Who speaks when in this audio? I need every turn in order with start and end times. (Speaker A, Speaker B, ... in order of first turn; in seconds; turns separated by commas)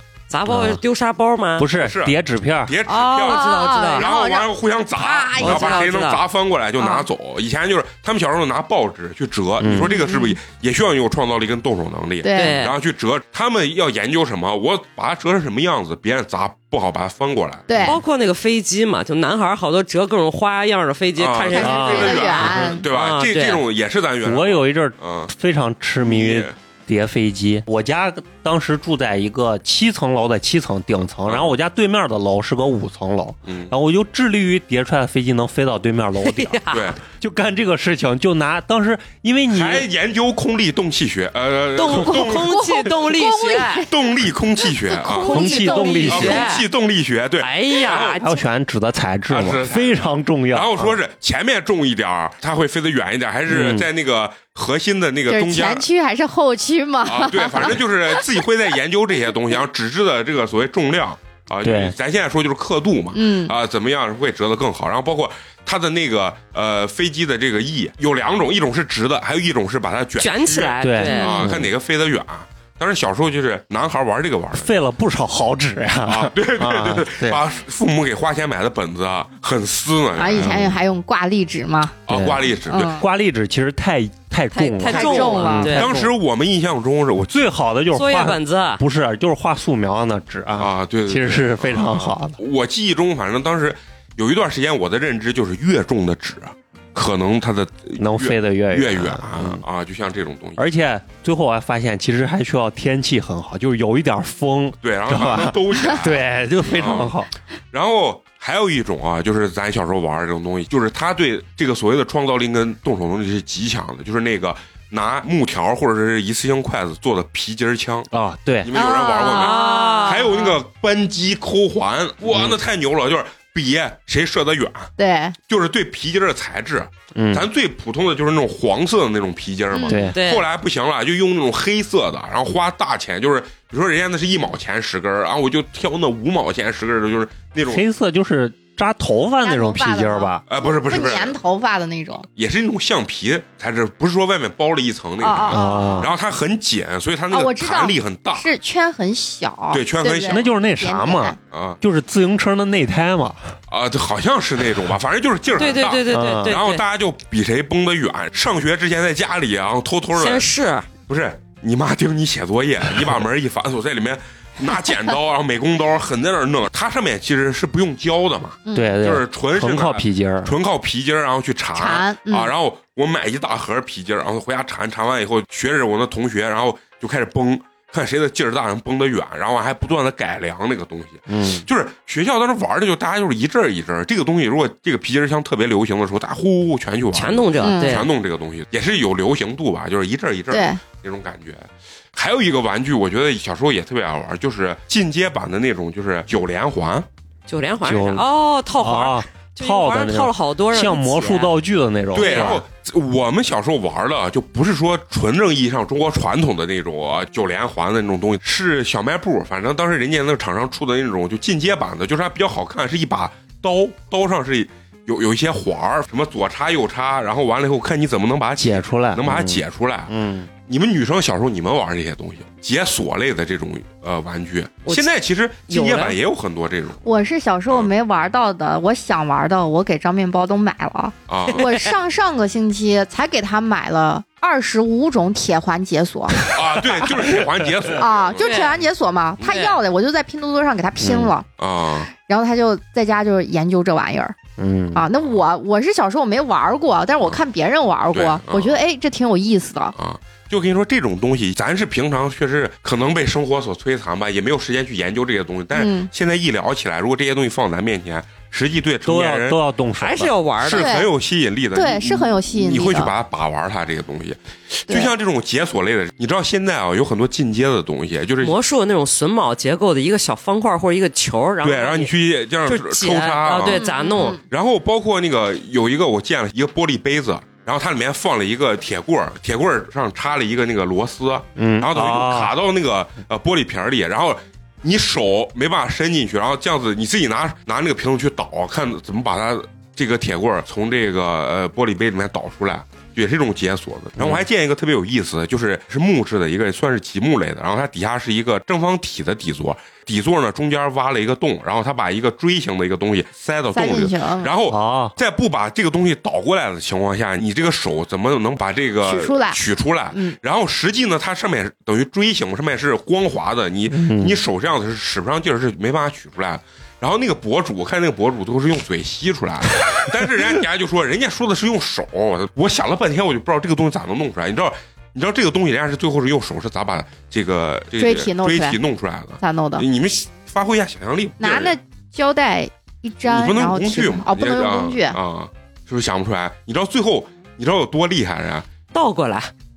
Speaker A: 0.3-1.7, Speaker B: 0.5-0.8, Speaker B: 1.6-2.8, Speaker C: 1.8-17.7, Speaker A: 2.9-4.1, Speaker D: 3.2-5.9, Speaker A: 5.4-6.2, Speaker D: 6.8-7.1, Speaker B: 9.6-9.9, Speaker D: 9.7-10.4, Speaker D: 12.2-12.6, Speaker A: 12.3-12.7, Speaker D: 17.7-18.0, Speaker A: 17.8-23.6, Speaker C: 21.2-25.3, Speaker D: 21.5-22.9, Speaker B: 21.6-22.5, Speaker B: 24.2-39.9, Speaker C: 26.0-26.5, Speaker C: 31.2-31.6, Speaker C: 33.5-33.7, Speaker A: 36.2-36.9, Speaker C: 36.7-37.0, Speaker C: 39.5-42.6, Speaker A: 41.7-43.8, Speaker D: 41.9-43.9, Speaker C: 43.9-45.4, Speaker D: 44.6-46.5, Speaker A: 45.0-46.6, Speaker B: 45.2-46.5, Speaker C: 46.1-48.2, Speaker A: 47.4-48.4, Speaker B: 48.0-51.0, Speaker C: 49.3-55.8, Speaker B: 53.5-53.9, Speaker D: 55.3-58.2, Speaker C: 57.0-74.8, Speaker B: 61.6-61.9, Speaker D: 63.1-63.5, Speaker A: 70.2-71.5, Speaker B: 70.8-71.7, Speaker D: 71.1-71.5, Speaker B: 74.5-77.4, Speaker C: 76.0-80.8, Speaker D: 80.2-82.0, Speaker C: 82.1-82.9, Speaker B: 82.1-86.1, Speaker D: 82.6-83.1, Speaker A: 84.5-86.0, Speaker D: 84.9-85.8, Speaker C: 85.7-87.3, Speaker B: 87.3-92.4, Speaker A: 87.9-88.8, Speaker C: 90.6-100.6, Speaker B: 98.0-99.6, Speaker B: 100.6-107.3, Speaker C: 104.8-107.1, Speaker C: 107.7-118.1, Speaker B: 118.1-118.7, Speaker C: 118.6-124.9, Speaker D: 118.7-120.5, Speaker A: 119.0-120.6, Speaker B: 122.3-122.6, Speaker D: 125.0-125.3, Speaker C: 125.5-137.8, Speaker B: 127.1-127.5, Speaker A: 129.8-130.4, Speaker B: 129.9-130.2, Speaker B: 137.7-140.4, Speaker D: 139.4-142.2, Speaker C: 140.5-141.3, Speaker C: 142.3-148.4, Speaker D: 145.2-146.1, Speaker B: 145.5-146.1, Speaker D: 147.3-151.4, Speaker C: 149.7-150.5, Speaker B: 150.3-153.5, Speaker C: 151.5-151.8, Speaker C: 153.7-160.5, Speaker A: 155.5-156.8, Speaker B: 156.1-156.6, Speaker A: 160.1-160.9, Speaker C: 161.1-197.1, Speaker D: 168.6-169.0, Speaker B: 168.7-170.5, Speaker D: 171.7-172.5, Speaker B: 181.3-181.7, Speaker A: 187.1-188.1, Speaker D: 187.6-188.1, Speaker D: 190.5-190.8, Speaker A: 197.5-201.5, Speaker B: 197.8-198.2, Speaker B: 198.8-202.6, Speaker C: 202.1-220.1, Speaker A: 202.1-202.6, Speaker B: 218.6-220.5, Speaker C: 220.7-227.0, Speaker A: 225.7-226.2, Speaker D: 227.0-236.5, Speaker C: 231.3-231.7, Speaker A: 231.5-231.8, Speaker C: 236.4-238.5, Speaker B: 237.2-237.9, Speaker D: 237.9-241.4, Speaker A: 238.4-238.8, Speaker A: 239.4-239.8, Speaker B: 241.0-241.3, Speaker C: 241.6-242.1, Speaker D: 242.1-244.3, Speaker B: 244.6-245.0, Speaker D: 244.9-249.9, Speaker C: 248.1-248.8, Speaker C: 249.9-259.6, Speaker D: 255.7-256.1, Speaker B: 259.0-260.4, Speaker A: 260.0-261.1, Speaker C: 260.6-268.6, Speaker D: 260.7-261.1, Speaker D: 261.7-263.1, Speaker A: 268.4-272.1, Speaker C: 271.6-331.7, Speaker A: 272.6-274.4, Speaker D: 273.7-274.4, Speaker B: 281.6-282.5, Speaker B: 294.2-294.5, Speaker D: 303.7-304.5, Speaker B: 304.7-305.1, Speaker D: 309.0-309.6, Speaker D: 310.1-310.4, Speaker B: 313.9-314.4, Speaker D: 327.9-328.8, Speaker D: 329.4-329.9, Speaker D: 331.4-335.2, Speaker C: 333.2-338.7, Speaker A: 338.9-339.5